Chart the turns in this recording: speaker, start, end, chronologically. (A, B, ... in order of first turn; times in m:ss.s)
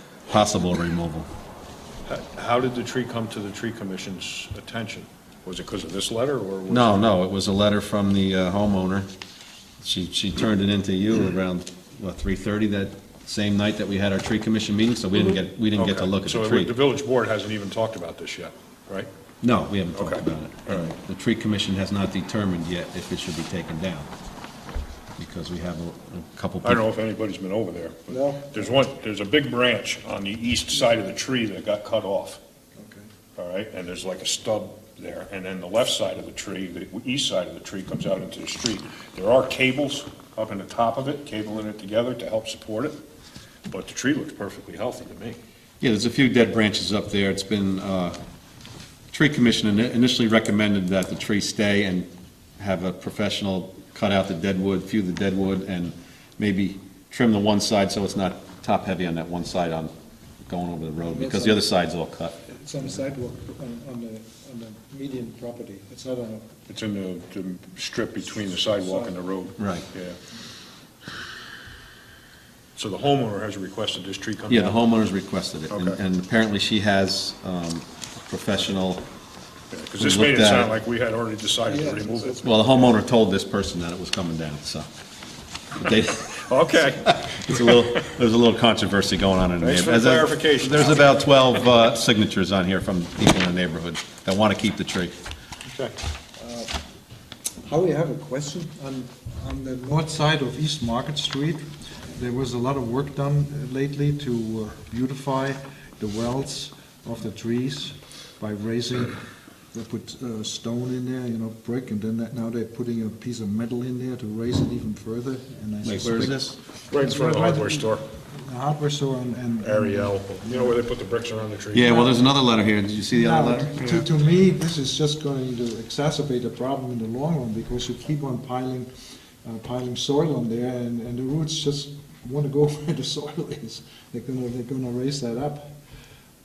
0:00.3-0:01.3 A
0:02.1-0:07.1 B
0:06.7-0:09.1 A
0:09.8-0:16.7 A
0:15.1-0:19.1 B
0:19.4-0:24.1 A
0:19.9-0:20.9 B
0:25.2-0:26.8 A
0:26.6-0:32.4 B
0:28.1-0:28.8 C
0:32.8-0:33.0 C
0:33.4-0:43.0 B
0:43.7-0:45.4 B
0:45.8-0:48.2 A
0:49.1-0:59.9 A
1:00.5-1:02.4 A
1:01.0-1:01.7 C
1:02.5-1:06.5 C
1:06.7-1:10.2 B
1:08.8-1:09.1 C
1:09.6-1:09.8 A
1:12.8-1:14.8 B
1:14.5-1:19.0 A
1:15.7-1:16.0 B
1:19.7-1:22.9 B
1:20.0-1:20.7 A
1:21.6-1:22.4 C
1:22.4-1:24.9 A
1:25.8-1:35.2 A
1:26.4-1:28.1 B
1:29.6-1:31.3 B
1:35.7-1:36.0 B
1:36.4-1:36.7 C
1:37.6-2:00.8 C
1:55.8-1:56.6 A
1:56.9-1:58.0 B
1:59.6-2:02.0 B
2:01.7-2:04.0 A
2:01.8-2:02.2 C
2:03.1-2:08.9 C
2:09.4-2:15.8 C